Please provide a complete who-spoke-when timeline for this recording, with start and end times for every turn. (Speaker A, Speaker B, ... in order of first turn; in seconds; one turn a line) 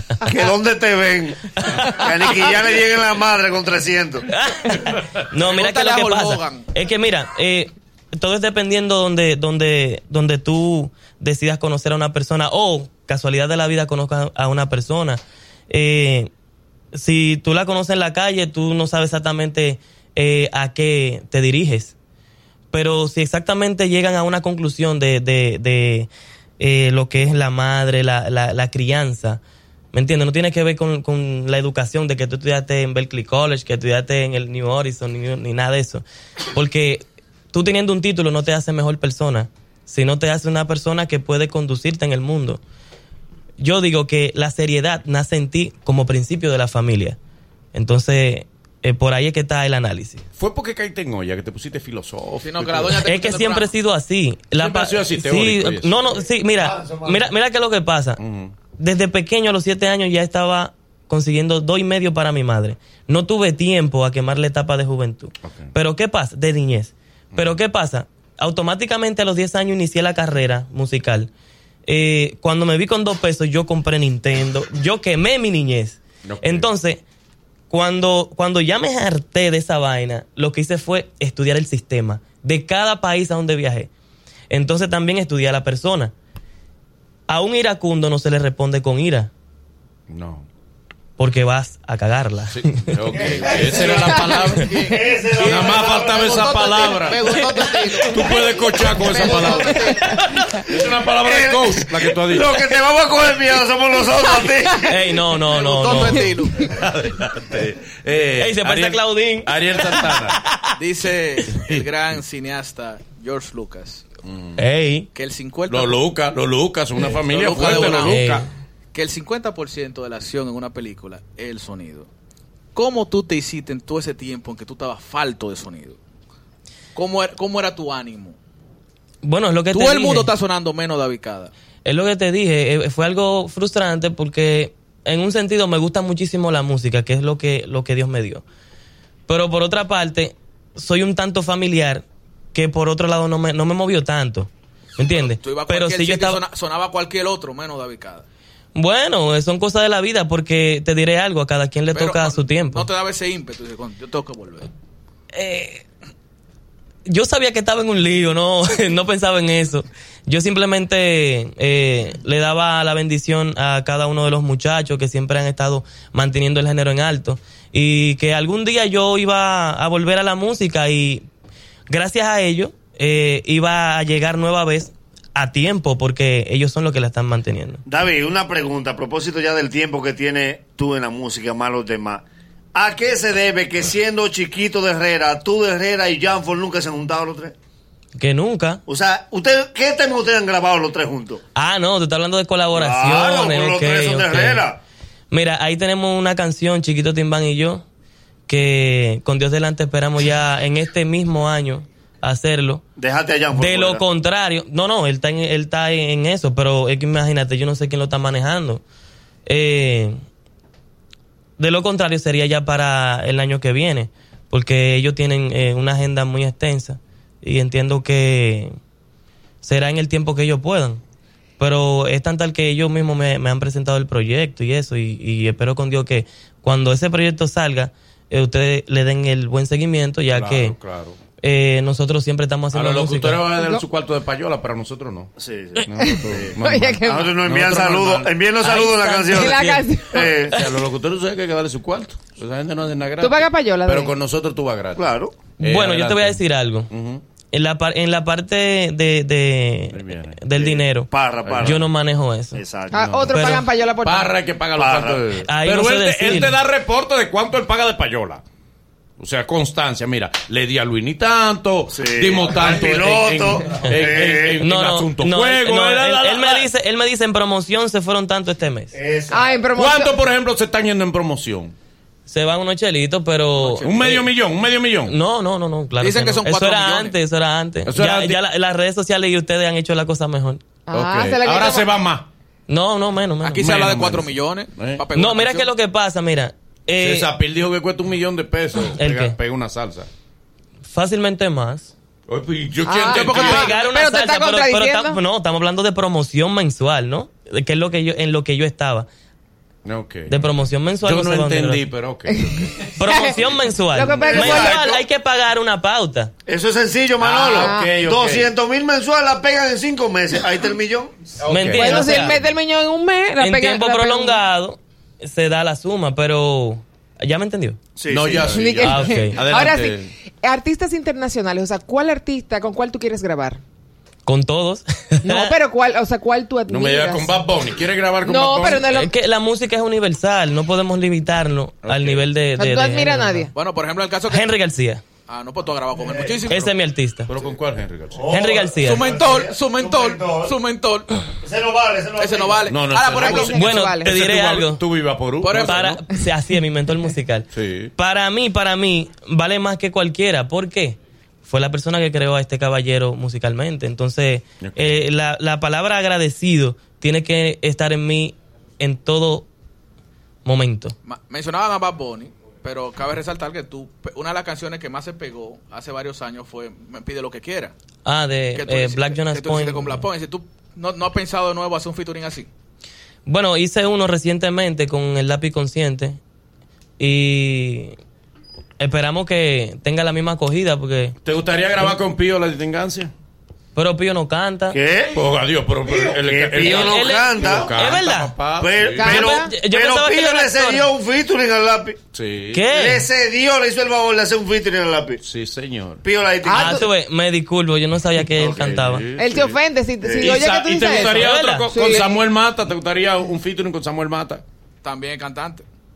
Speaker A: 0.2-4.2
Speaker B: 1.7-2.0
Speaker B: 4.3-16.3
Speaker C: 4.8-5.2
Speaker D: 5.3-6.7
Speaker B: 16.9-21.9
Speaker B: 22.7-29.4
Speaker B: 29.9-42.6
Speaker B: 43.6-47.2
Speaker B: 47.7-50.2
Speaker C: 50.4-53.0
Speaker D: 52.4-53.7
Speaker B: 53.0-58.2
Speaker C: 54.5-56.0
Speaker A: 56.6-57.2
Speaker C: 58.2-58.5
Speaker B: 58.8-71.3
Speaker C: 65.4-65.7
Speaker C: 67.3-67.6
Speaker B: 71.8-77.0
Speaker C: 76.2-76.7
Speaker B: 77.7-83.9
Speaker B: 84.5-86.1
Speaker B: 87.3-89.3
Speaker C: 90.1-90.5
Speaker B: 91.2-93.2
Speaker C: 92.5-94.8
Speaker A: 93.2-96.5
Speaker D: 93.4-98.4
Speaker C: 95.4-97.4
Speaker C: 98.0-102.5
Speaker D: 98.9-100.1
Speaker B: 100.0-100.5
Speaker A: 101.2-105.0
Speaker B: 104.8-106.3
Speaker D: 105.5-106.7
Speaker C: 106.6-110.4
Speaker B: 108.4-110.0
Speaker D: 110.8-114.0
Speaker C: 111.6-111.8
Speaker C: 114.2-114.6
Speaker B: 114.6-115.1
Speaker D: 115.1-116.0
Speaker C: 115.7-118.5
Speaker D: 117.2-118.2
Speaker B: 118.0-118.5
Speaker D: 118.9-122.1
Speaker D: 122.7-126.0
Speaker D: 126.9-128.4
Speaker B: 129.2-130.3
Speaker D: 129.7-131.5
Speaker B: 131.8-138.4
Speaker B: 139.3-146.4
Speaker D: 145.0-148.2
Speaker B: 148.7-152.9
Speaker D: 151.9-154.7
Speaker B: 155.3-155.8
Speaker B: 157.1-171.2
Speaker B: 171.9-177.8
Speaker A: 177.8-187.5
Speaker B: 188.2-188.8
Speaker A: 188.9-191.4
Speaker B: 191.6-194.6
Speaker A: 192.7-194.8
Speaker B: 195.3-197.8
Speaker B: 198.5-202.8
Speaker A: 203.0-204.0
Speaker B: 203.5-208.8
Speaker B: 209.5-210.2
Speaker B: 211.6-218.7
Speaker B: 219.6-221.0
Speaker B: 221.6-230.8
Speaker C: 230.3-231.2
Speaker B: 231.4-233.4
Speaker C: 232.7-238.3
Speaker E: 233.6-233.8
Speaker A: 235.4-240.6
Speaker E: 235.9-237.3
Speaker B: 238.6-239.9
Speaker E: 239.2-240.3
Speaker C: 240.4-245.1
Speaker E: 243.2-244.1
Speaker A: 244.9-245.3
Speaker C: 245.6-247.2
Speaker B: 245.6-246.9
Speaker B: 247.5-251.1
Speaker C: 249.9-250.4
Speaker A: 250.6-251.8
Speaker C: 251.4-251.8
Speaker B: 251.6-252.6
Speaker A: 252.5-253.1
Speaker E: 252.9-254.3
Speaker C: 252.9-253.5
Speaker B: 253.3-253.7
Speaker C: 254.0-258.4
Speaker A: 254.8-255.2
Speaker B: 255.4-256.6
Speaker C: 259.2-266.7
Speaker A: 261.9-264.6
Speaker B: 264.6-268.9
Speaker A: 268.9-269.6
Speaker E: 269.3-270.1
Speaker C: 269.7-271.7
Speaker B: 272.3-274.3
Speaker C: 273.7-275.1
Speaker B: 275.1-280.6
Speaker D: 276.0-277.1
Speaker C: 277.9-278.4
Speaker E: 280.9-281.9
Speaker C: 280.9-282.3
Speaker B: 282.7-283.7
Speaker D: 283.4-285.7
Speaker C: 283.6-285.0
Speaker B: 285.1-287.3
Speaker C: 287.0-290.1
Speaker B: 288.9-289.4
Speaker B: 290.9-291.9
Speaker C: 292.3-293.8
Speaker E: 292.8-295.2
Speaker D: 293.0-293.7
Speaker B: 293.3-299.1
Speaker C: 299.8-300.4
Speaker B: 300.3-301.9
Speaker C: 301.0-303.7
Speaker E: 302.3-303.4
Speaker B: 303.0-306.3
Speaker E: 303.9-304.8
Speaker A: 304.2-305.0
Speaker A: 306.4-311.2
Speaker C: 307.2-308.5
Speaker E: 307.5-307.9
Speaker C: 311.4-312.3
Speaker B: 311.4-312.4
Speaker E: 311.8-314.4
Speaker B: 313.4-317.8
Speaker A: 318.0-318.6
Speaker C: 318.1-320.1
Speaker E: 318.5-323.6
Speaker B: 318.8-319.4
Speaker B: 324.2-325.5
Speaker E: 325.2-327.4
Speaker C: 326.7-328.9
Speaker E: 328.2-329.1
Speaker B: 328.8-333.5
Speaker C: 331.8-332.3
Speaker E: 332.6-333.5
Speaker D: 333.5-334.5
Speaker B: 334.3-335.0
Speaker D: 335.3-336.7
Speaker A: 336.0-336.4
Speaker B: 336.5-337.3
Speaker C: 337.3-338.3
Speaker A: 338.1-340.5
Speaker B: 338.3-339.0
Speaker D: 338.8-341.2
Speaker A: 341.4-342.7
Speaker D: 342.2-343.6
Speaker C: 342.7-346.0
Speaker E: 343.1-344.1
Speaker B: 343.5-344.8
Speaker D: 345.4-345.8
Speaker B: 345.6-359.5
Speaker C: 347.5-347.9
Speaker C: 354.6-355.0
Speaker B: 360.4-360.9
Speaker D: 361.0-367.7
Speaker B: 368.0-370.0
Speaker D: 368.5-372.5
Speaker B: 373.2-376.2
Speaker B: 377.0-378.0
Speaker B: 378.8-381.1
Speaker C: 381.2-383.1
Speaker B: 383.7-384.8
Speaker A: 384.7-385.2
Speaker C: 385.1-389.2
Speaker A: 385.9-387.7
Speaker B: 386.6-388.3
Speaker A: 388.6-392.0
Speaker E: 389.0-389.5
Speaker B: 389.0-390.9
Speaker C: 392.1-392.7
Speaker B: 392.5-393.0
Speaker A: 392.7-395.2
Speaker C: 395.2-396.0
Speaker A: 396.0-396.8
Speaker E: 396.4-396.9
Speaker B: 396.5-399.0
Speaker C: 398.3-399.6
Speaker E: 399.2-402.2
Speaker A: 400.0-400.4
Speaker C: 400.2-404.4
Speaker B: 401.0-401.7
Speaker D: 404.8-405.6